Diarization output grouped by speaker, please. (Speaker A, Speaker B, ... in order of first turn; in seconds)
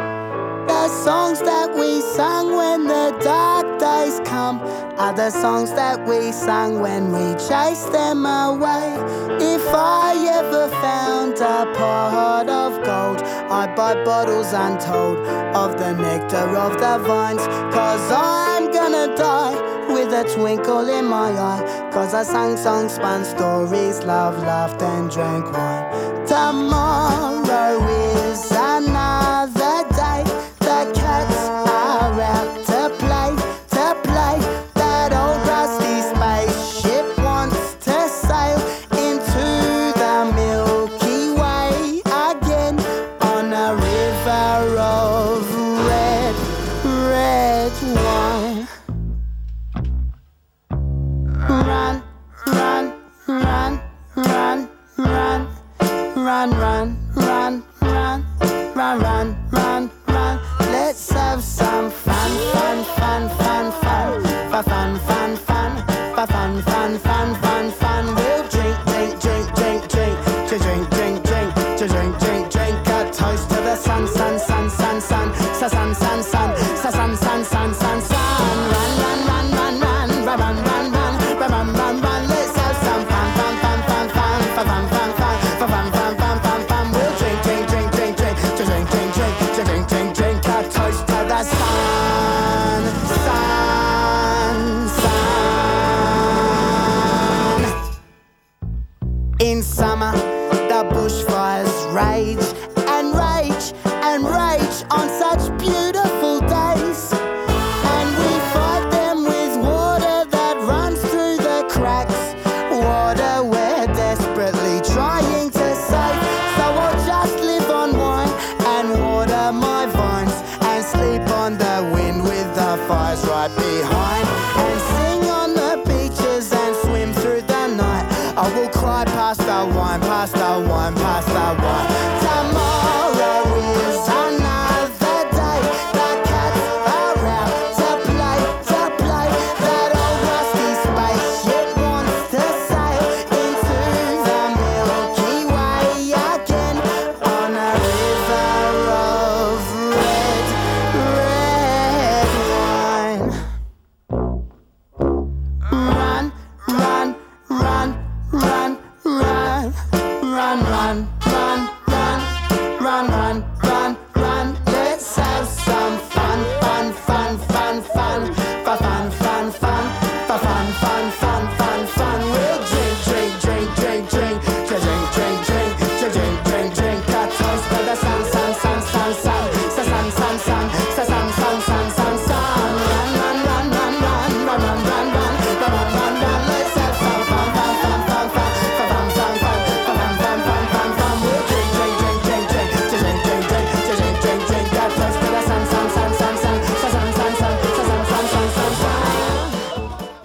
Speaker A: 0.7-48.7, 51.4-97.7, 99.4-107.2, 107.8-153.3, 155.6-199.5